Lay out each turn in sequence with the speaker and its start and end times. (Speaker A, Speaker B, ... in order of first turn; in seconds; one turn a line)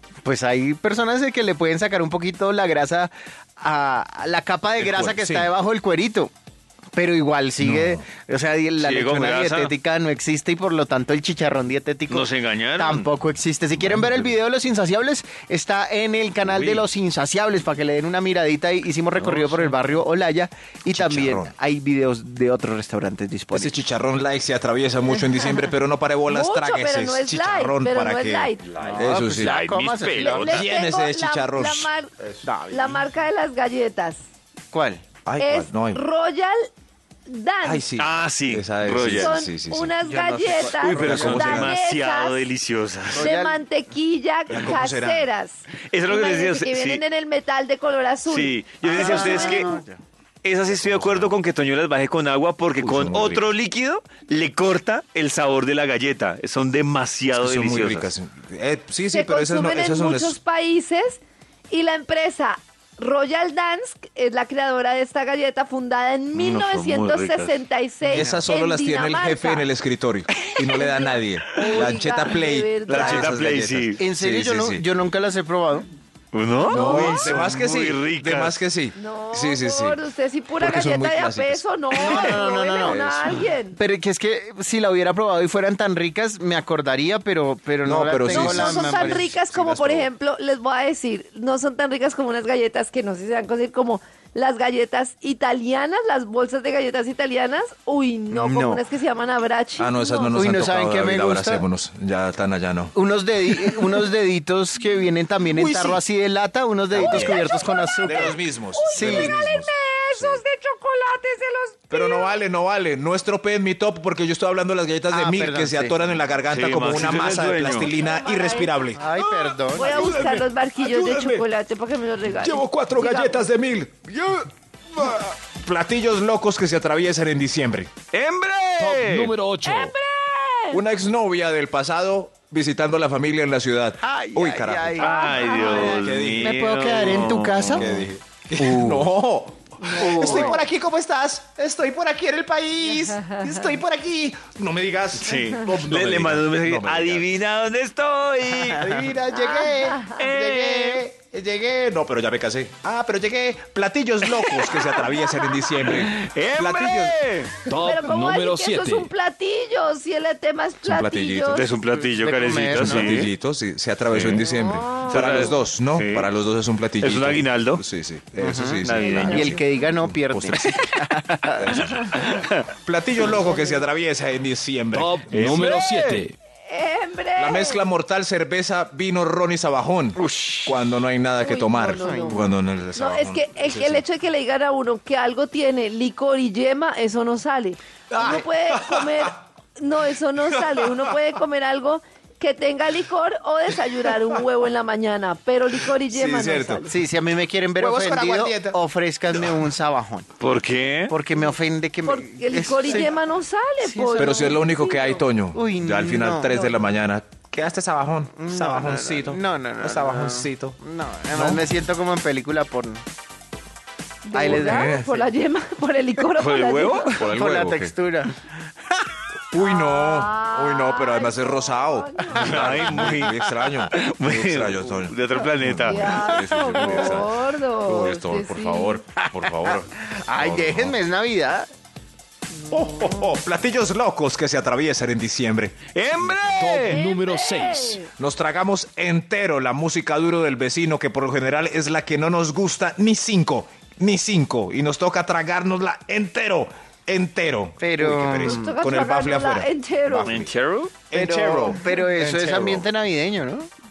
Speaker A: 0.2-6.3
Speaker B: 4.8-5.5
Speaker A: 6.9-23.9
Speaker B: 7.6-8.1
Speaker C: 8.8-9.7
Speaker C: 12.1-13.1
Speaker B: 13.8-14.3
Speaker B: 16.5-16.8
Speaker C: 19.1-19.9
Speaker B: 20.9-21.5
Speaker B: 23.5-29.6
Speaker D: 26.3-28.6
Speaker C: 28.8-30.7
Speaker A: 28.8-30.6
Speaker D: 30.1-32.1
Speaker B: 30.4-31.9
Speaker A: 32.4-33.0
Speaker D: 32.7-34.2
Speaker A: 34.7-35.0
Speaker B: 35.2-36.0
Speaker D: 35.4-36.7
Speaker D: 37.3-37.8
Speaker B: 37.6-39.9
Speaker C: 38.0-39.4
Speaker D: 39.1-42.4
Speaker A: 40.0-41.5
Speaker C: 40.6-43.3
Speaker B: 40.6-41.7
Speaker A: 43.1-43.6
Speaker D: 43.2-49.8
Speaker B: 44.5-45.3
Speaker C: 45.9-47.0
Speaker C: 48.2-49.8
Speaker A: 48.8-50.0
Speaker C: 50.4-58.1
Speaker B: 50.7-51.3
Speaker B: 52.8-53.5
Speaker B: 57.4-60.4
Speaker D: 59.1-69.7
Speaker C: 66.3-68.4
Speaker B: 68.0-74.8
Speaker D: 70.8-73.4
Speaker C: 71.6-71.9
Speaker C: 72.9-74.0
Speaker A: 74.0-75.9
Speaker C: 76.3-78.6
Speaker B: 76.7-80.0
Speaker D: 76.8-77.3
Speaker D: 79.0-83.8
Speaker B: 80.5-83.5
Speaker A: 81.9-83.0
Speaker A: 83.7-89.3
Speaker B: 87.8-90.1
Speaker D: 88.3-100.3
Speaker A: 98.3-98.8
Speaker B: 99.8-102.9
Speaker A: 100.3-101.6
Speaker A: 102.9-108.4
Speaker B: 105.5-106.0
Speaker B: 106.9-110.4
Speaker D: 106.9-112.3
Speaker A: 108.9-109.4
Speaker B: 111.9-121.5
Speaker A: 115.1-116.0
Speaker C: 116.5-117.9
Speaker D: 117.8-118.7
Speaker A: 119.0-120.1
Speaker D: 119.7-123.4
Speaker B: 122.3-124.5
Speaker B: 125.0-127.9
Speaker C: 128.1-129.3
Speaker E: 128.8-129.9
Speaker D: 129.6-130.8
Speaker B: 130.7-147.3
Speaker A: 134.0-137.8
Speaker C: 134.9-138.1
Speaker A: 138.6-139.0
Speaker A: 139.9-140.6
Speaker D: 140.0-140.3
Speaker C: 145.2-148.9
Speaker A: 148.6-149.1
Speaker B: 148.8-157.2
Speaker D: 149.3-150.1
Speaker C: 150.1-151.0
Speaker C: 154.4-154.9
Speaker C: 155.8-157.6
Speaker E: 157.7-159.1
Speaker D: 157.7-161.6
Speaker B: 160.8-161.6
Speaker C: 161.5-163.3
Speaker A: 161.9-163.2
Speaker B: 162.5-170.6
Speaker C: 164.1-164.5
Speaker D: 164.6-165.4
Speaker C: 165.0-166.3
Speaker C: 167.0-167.8
Speaker A: 168.4-171.8
Speaker C: 168.8-169.6
Speaker D: 169.1-169.8
Speaker B: 171.6-172.3
Speaker C: 171.8-172.6
Speaker B: 172.8-175.8
Speaker E: 174.9-176.3
Speaker C: 175.4-176.3
Speaker D: 176.7-177.8
Speaker B: 177.3-184.0
Speaker C: 180.2-180.8
Speaker D: 181.4-196.9
Speaker A: 181.9-182.5
Speaker B: 188.1-189.3
Speaker B: 190.5-191.4
Speaker B: 193.7-194.4
Speaker B: 195.8-196.8
Speaker A: 196.8-200.3
Speaker B: 197.8-198.8
Speaker B: 199.3-199.6
Speaker C: 200.4-201.2
Speaker A: 201.1-203.2
Speaker D: 202.0-205.2
Speaker A: 203.8-204.6
Speaker B: 204.2-210.8
Speaker A: 205.5-206.7
Speaker A: 208.3-213.0
Speaker B: 211.3-211.7
Speaker D: 214.2-217.1
Speaker A: 214.3-215.3
Speaker B: 214.4-215.1
Speaker C: 216.3-217.3
Speaker B: 217.1-217.9
Speaker A: 217.2-218.4
Speaker B: 219.5-231.0
Speaker D: 219.6-222.6
Speaker A: 222.3-223.6
Speaker C: 222.4-223.4
Speaker C: 223.9-226.3
Speaker D: 225.8-229.0
Speaker A: 226.1-227.2
Speaker A: 229.2-231.7
Speaker B: 232.7-236.7
Speaker C: 235.9-237.0
Speaker E: 236.6-238.0
Speaker D: 236.9-238.1
Speaker B: 238.2-250.5
Speaker A: 247.8-248.8
Speaker D: 248.4-250.4
Speaker C: 250.2-251.0
Speaker B: 251.1-252.9
Speaker A: 251.1-253.7